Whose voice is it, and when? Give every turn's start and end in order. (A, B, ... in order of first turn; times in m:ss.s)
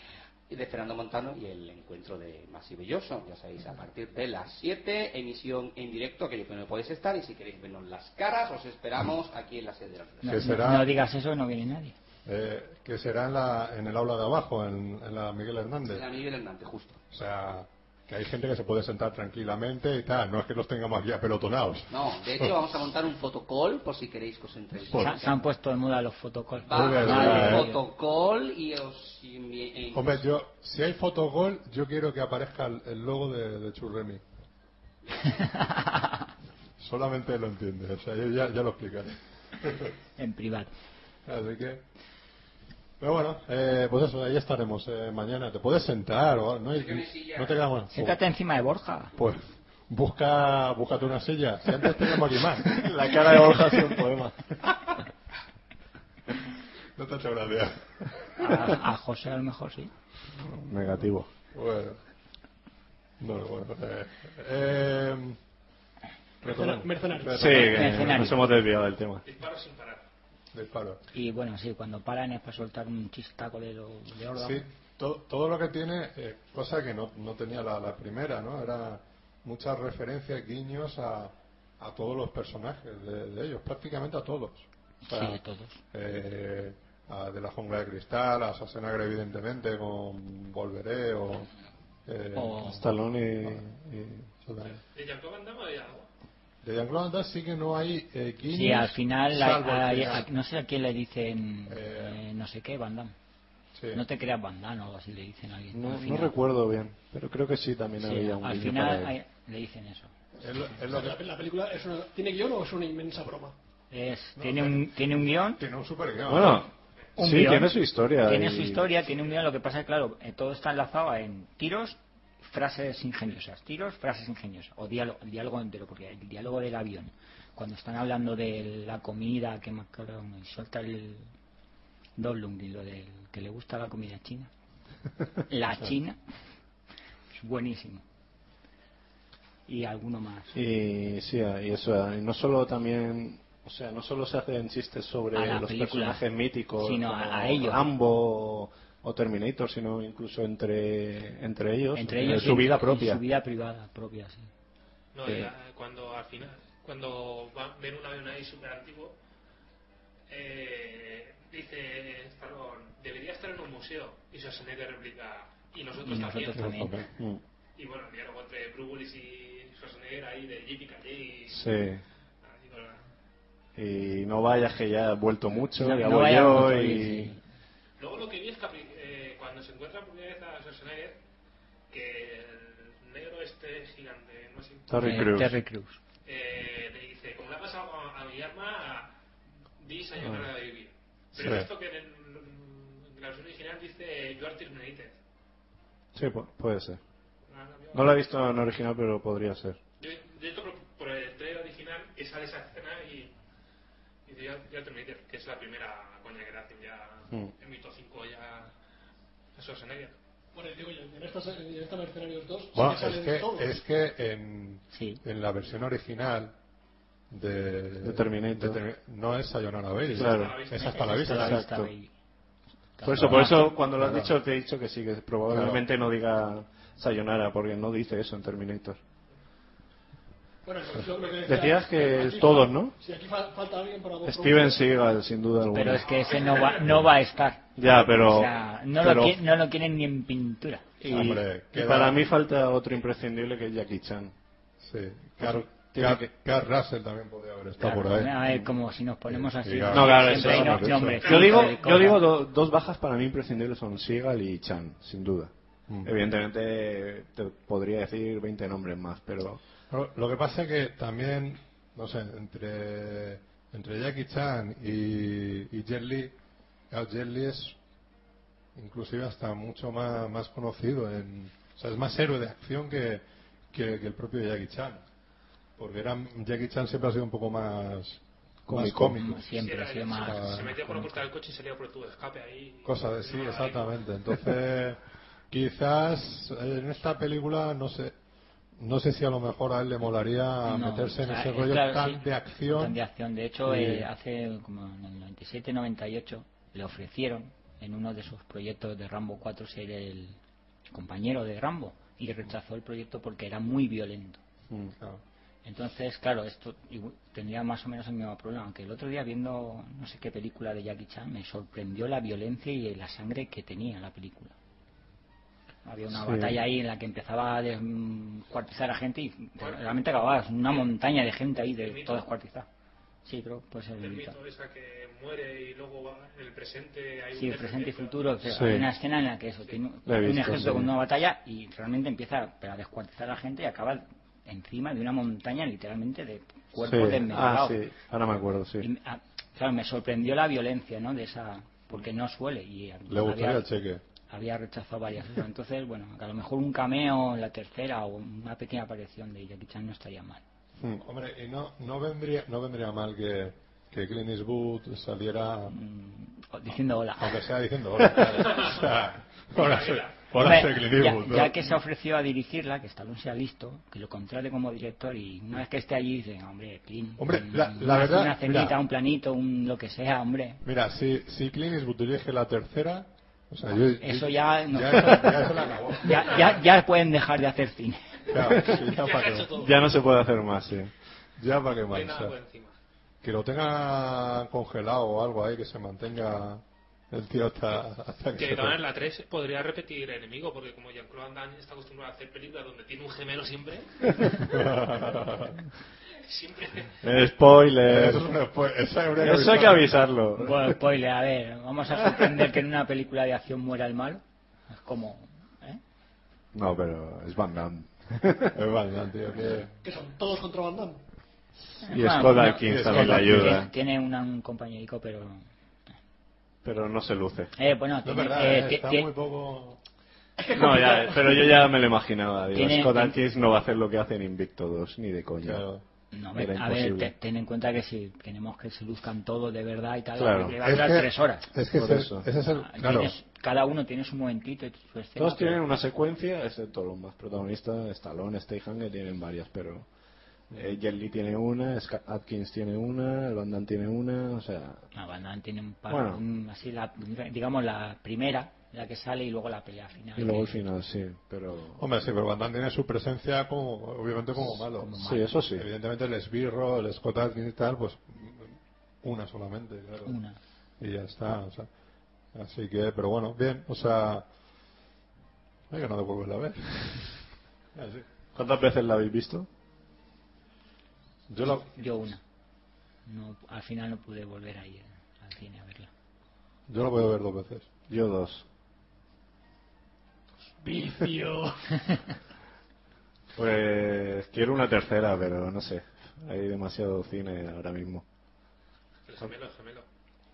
0:00.5-0:10.3 A
0:10.2-0:11.9 B
0:10.2-0:10.9 C
0:12.2-0:16.0 C
0:15.8-0:17.0 A
0:17.1-0:22.6 C
0:21.9-0:25.4 A
0:24.9-0:25.2 C
0:24.9-0:27.8 B
0:26.6-0:30.2 A
0:26.7-0:27.7 C
0:29.9-0:34.2 C
0:35.3-0:36.2 B
0:36.8-0:39.9 C
0:40.2-0:40.7 B
0:41.2-0:41.8 C
0:43.0-0:48.2 C
0:46.7-0:47.6 A
0:47.9-0:49.2 B
0:49.1-0:52.9 C
0:52.6-0:54.4 D
0:57.0-0:58.4 C
0:58.4-0:59.9 B
1:00.4-1:01.3 D
1:01.5-1:02.0 C
1:03.2-1:05.4 C
1:06.4-1:08.3 C
1:06.4-1:07.9 E
1:07.3-1:09.2 D
1:07.5-1:08.4 B
1:09.2-1:10.0 F
1:10.5-1:11.0 C
1:11.1-1:14.6 B
1:14.3-1:25.4 C
1:25.0-1:25.8 B
1:25.9-1:31.5 C
1:32.0-1:32.8 C
1:32.3-1:32.8 B
1:32.6-1:34.3 D
1:34.4-1:34.8 C
1:34.8-1:36.1 F
1:36.6-1:40.3 C
1:38.5-1:43.1 B
1:41.7-1:42.2 C
1:43.7-1:44.0 C
1:43.9-1:46.3 B
1:45.7-1:49.1 D
1:48.0-1:50.1 B
1:50.4-1:51.2 C
1:50.4-1:53.6 E
1:53.9-1:55.6 B
1:54.4-1:56.7 C
1:56.3-1:58.9 D
1:57.2-2:11.2 B
2:12.2-2:14.5 B
2:15.5-2:16.2 B
2:17.3-2:18.0 B
2:19.7-2:20.6 B
2:20.5-2:33.2 D
2:25.3-2:26.2 B
2:26.8-2:27.9 B
2:31.9-2:34.5 B
2:35.1-2:39.2 F
2:40.3-2:46.8 F
2:46.0-2:47.0 B
2:46.6-2:47.0 C
2:47.8-2:51.7 F
2:51.5-2:52.0 D
2:52.4-2:53.0 F
2:53.8-2:57.3 D
2:55.8-2:57.4 B
2:58.0-3:01.2 F
3:01.9-3:05.2 F
3:04.9-3:05.6 D
3:05.0-3:06.0 B
3:06.2-3:09.1 F
3:09.8-3:15.2 F
3:11.4-3:11.7 C
3:16.1-3:17.0 D
3:17.5-3:18.1 F
3:17.9-3:19.8 D
3:20.0-3:23.3 F
3:24.2-3:28.7 F
3:29.5-3:30.2 F
3:30.5-3:33.8 E
3:32.7-3:36.5 C
3:34.9-3:35.2 B
3:37.3-3:41.6 C
3:38.0-3:38.8 D
3:40.1-3:40.6 D
3:40.2-3:41.3 F
3:40.9-3:42.1 B
3:41.3-3:41.9 D
3:43.0-3:43.8 B
3:43.0-3:49.0 D
3:43.0-3:44.3 C
3:45.5-3:45.8 C
3:50.6-3:55.1 E
3:51.4-3:53.0 D
3:54.2-3:56.0 D
3:55.7-4:01.2 B
3:56.1-3:56.8 F
3:57.8-3:59.4 D
4:01.0-4:04.3 D
4:01.1-4:02.2 C
4:04.8-4:08.4 C
4:05.4-4:06.3 D
4:07.8-4:12.2 B
4:09.3-4:11.3 C
4:09.9-4:15.5 D
4:16.0-4:19.6 D
4:19.9-4:26.3 C
4:26.9-4:27.8 C
4:28.7-4:35.0 C
4:35.8-4:39.4 C
4:38.7-4:39.2 D
4:39.2-4:41.0 B
4:39.5-4:44.0 F
4:40.2-4:40.9 C
4:42.8-4:48.1 C
4:48.8-4:53.0 C
4:50.6-5:00.4 B
4:53.6-4:54.1 C
5:00.9-5:04.4 B
5:04.7-5:04.9 D
5:05.6-5:14.5 B
5:15.8-5:22.7 B
5:16.1-5:16.6 D
5:19.6-5:19.8 F
5:21.7-5:22.3 F
5:23.2-5:24.4 B
5:24.0-5:28.3 F
5:27.3-5:37.8 B
5:28.4-5:28.9 D
5:30.0-5:30.9 D
5:36.8-5:38.9 D
5:38.8-5:43.7 B
5:43.1-5:44.0 C
5:44.3-5:50.4 B
5:50.8-5:55.8 C
5:55.7-5:57.5 B
5:57.2-6:01.6 C
5:59.5-6:00.2 F
6:00.4-6:10.6 B
6:07.2-6:08.8 C
6:10.6-6:16.6 C
6:14.0-6:18.3 B
6:18.3-6:19.5 C
6:18.4-6:18.8 D
6:18.8-6:19.8 F
6:19.5-6:20.9 D
6:21.4-6:22.3 C
6:21.9-6:22.7 F
6:23.2-6:28.8 C
6:28.4-6:34.8 F
6:34.4-6:35.6 C
6:36.1-6:37.0 F
6:37.0-6:38.3 D
6:37.8-6:39.9 C
6:39.2-6:40.8 D
6:40.4-6:45.8 B
6:46.5-6:48.6 D
6:48.5-6:49.7 C
6:49.8-6:51.0 E
6:51.8-6:53.7 D
6:51.8-6:55.4 B
6:52.6-6:53.6 C
6:56.6-6:57.5 D
6:57.6-6:59.1 B
6:58.0-6:59.8 C
7:00.4-7:01.7 E
7:00.5-7:05.6 D
7:02.5-7:03.2 B
7:05.4-7:05.8 C
7:06.1-7:11.5 B
7:06.3-7:07.1 D
7:10.2-7:10.6 D
7:10.6-7:13.1 C
7:11.7-7:12.2 D
7:12.6-7:15.6 B
7:15.2-7:19.9 D
7:20.5-7:24.8 D
7:24.9-7:30.6 B
7:25.9-7:26.2 D
7:30.2-7:31.8 D
7:31.8-7:40.2 C
7:34.5-7:35.3 B
7:35.0-7:35.7 D
7:40.0-7:40.4 B
7:40.8-7:41.7 C
7:42.3-7:44.3 C
7:45.7-7:47.2 C
7:47.7-7:48.0 C
7:48.3-7:49.5 D
7:51.3-7:51.7 C
7:51.4-7:52.2 B
7:53.0-7:55.9 B
7:56.7-7:57.7 C
7:57.9-7:58.4 D
8:00.6-8:01.7 E
8:03.3-8:08.0 D
8:09.0-8:09.8 F